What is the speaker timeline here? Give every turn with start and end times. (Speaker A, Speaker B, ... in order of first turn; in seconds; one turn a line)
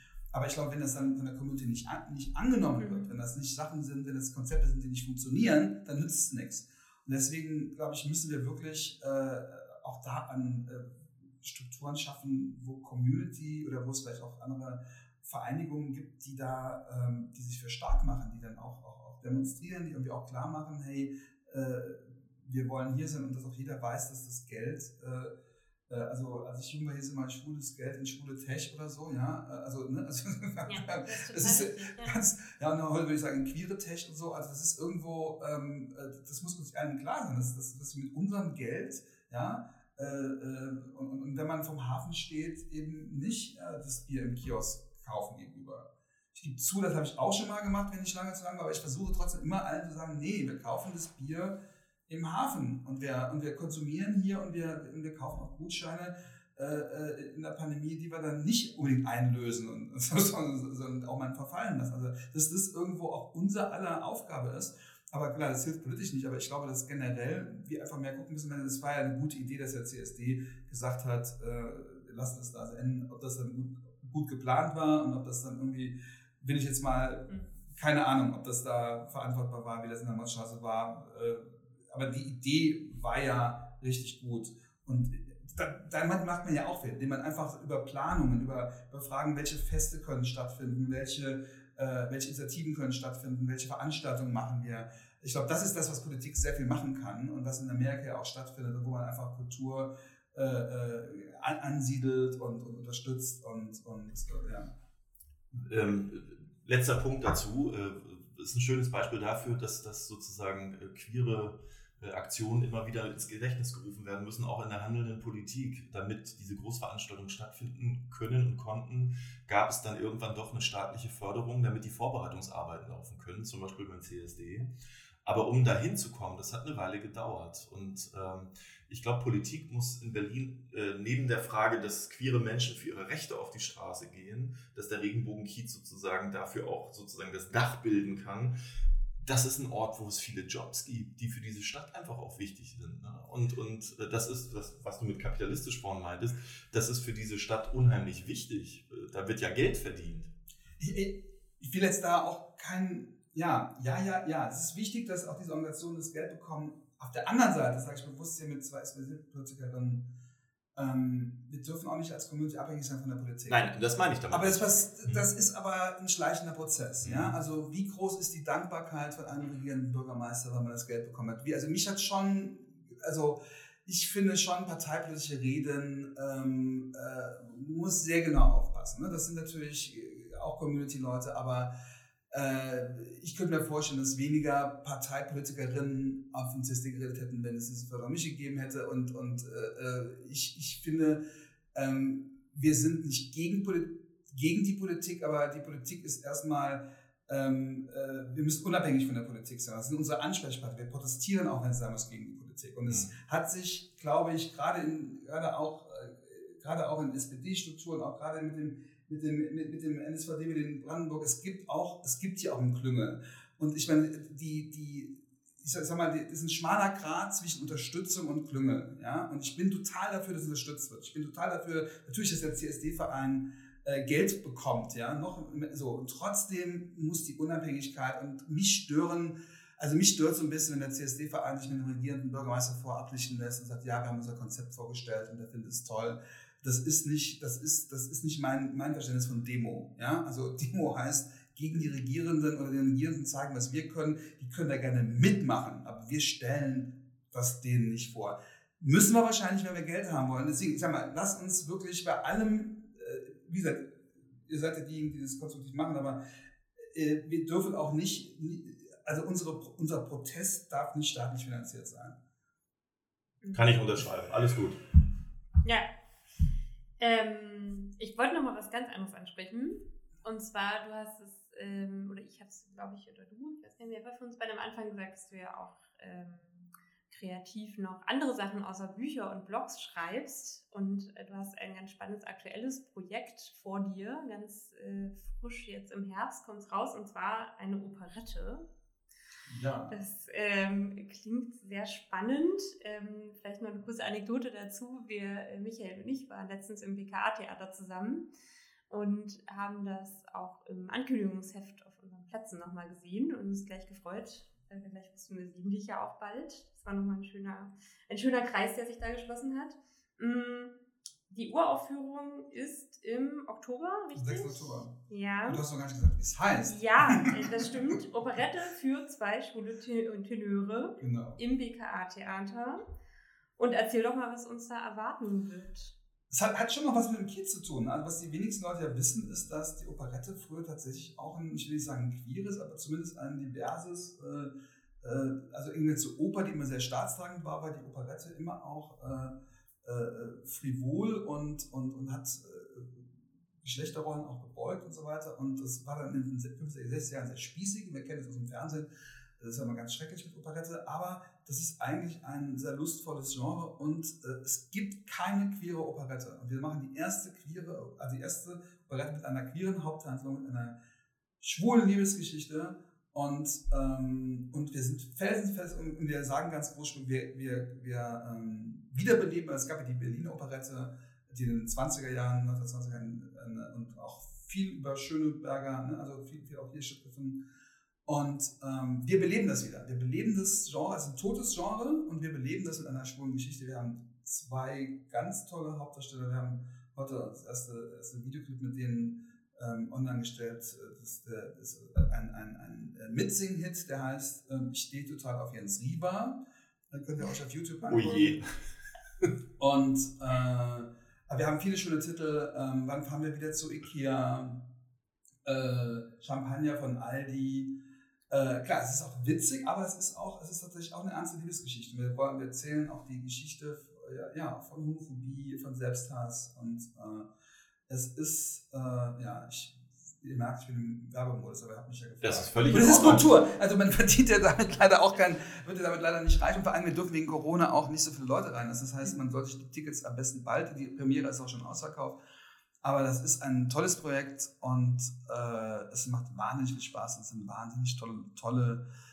Speaker A: 0.3-25.3
Speaker B: 2.8-3.1
Speaker A: 25.9-104.7
Speaker B: 30.6-32.2
Speaker C: 105.5-124.7
Speaker C: 125.2-138.6
Speaker C: 139.2-150.3
Speaker A: 150.8-160.1
Speaker A: 160.7-163.6
Speaker C: 163.5-165.2
Speaker A: 164.3-181.7
Speaker C: 167.0-167.3
Speaker A: 182.3-191.2
Speaker A: 191.7-256.2
Speaker A: 256.8-262.2
Speaker B: 263.4-263.7
Speaker C: 263.5-264.8
Speaker B: 267.0-288.6
Speaker A: 289.5-290.0
Speaker B: 289.9-298.3
Speaker B: 298.9-310.8
Speaker B: 311.3-315.6
Speaker A: 314.1-314.9
Speaker A: 315.4-318.0
Speaker B: 316.6-322.8
Speaker A: 321.0-321.4
Speaker B: 323.6-325.9
Speaker A: 326.3-360.8
Speaker A: 361.4-377.4
Speaker A: 378.1-396.4
Speaker A: 396.9-398.4
Speaker C: 397.8-399.2
Speaker A: 399.6-404.6
Speaker A: 405.4-407.7
Speaker A: 408.3-417.3
Speaker A: 417.9-432.2
Speaker C: 422.2-423.3
Speaker A: 432.8-438.8